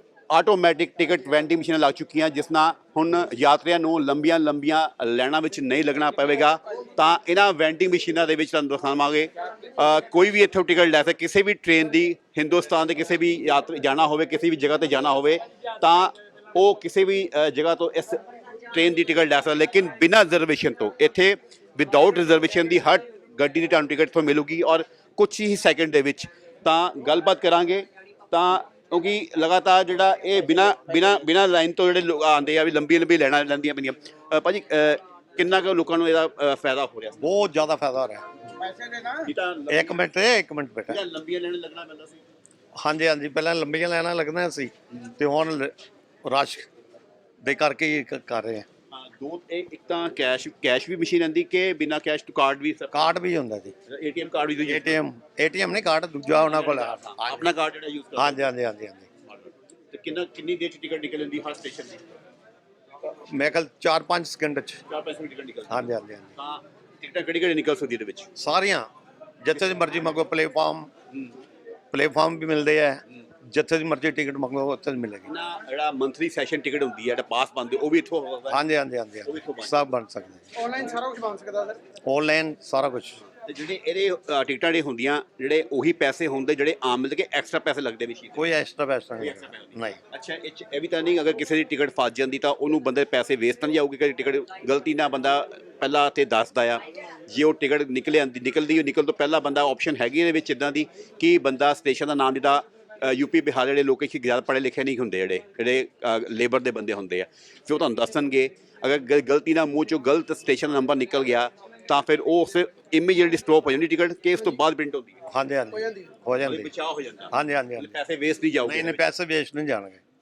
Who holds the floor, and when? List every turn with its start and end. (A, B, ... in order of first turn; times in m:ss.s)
0:00.3-0:37.3 A
0:37.2-0:38.2 B
0:38.6-0:39.2 C
0:39.2-0:40.0 A
0:39.7-0:41.0 B
0:40.9-0:42.2 A
0:42.8-0:46.7 B
0:47.4-0:48.7 B
0:48.9-0:53.0 A
0:52.9-0:53.7 B
0:53.9-0:55.0 A
0:54.7-0:57.1 B
0:56.4-0:58.5 A
0:58.2-0:59.1 B
0:59.9-1:02.0 A
1:03.2-1:04.8 B
1:04.9-1:08.3 A
1:05.7-1:06.3 B
1:08.4-1:08.9 B
1:09.4-1:10.9 B
1:11.9-1:15.3 B
1:15.2-1:18.6 A
1:18.5-1:20.5 B
1:19.2-1:19.8 A
1:20.6-1:21.8 C
1:22.1-1:23.2 B
1:23.3-1:28.5 A
1:28.3-1:30.0 B
1:29.2-1:55.2 A
1:55.3-1:56.7 B
1:55.8-1:56.1 C
1:56.4-1:59.0 A
1:57.3-1:57.9 B
1:58.6-2:00.0 B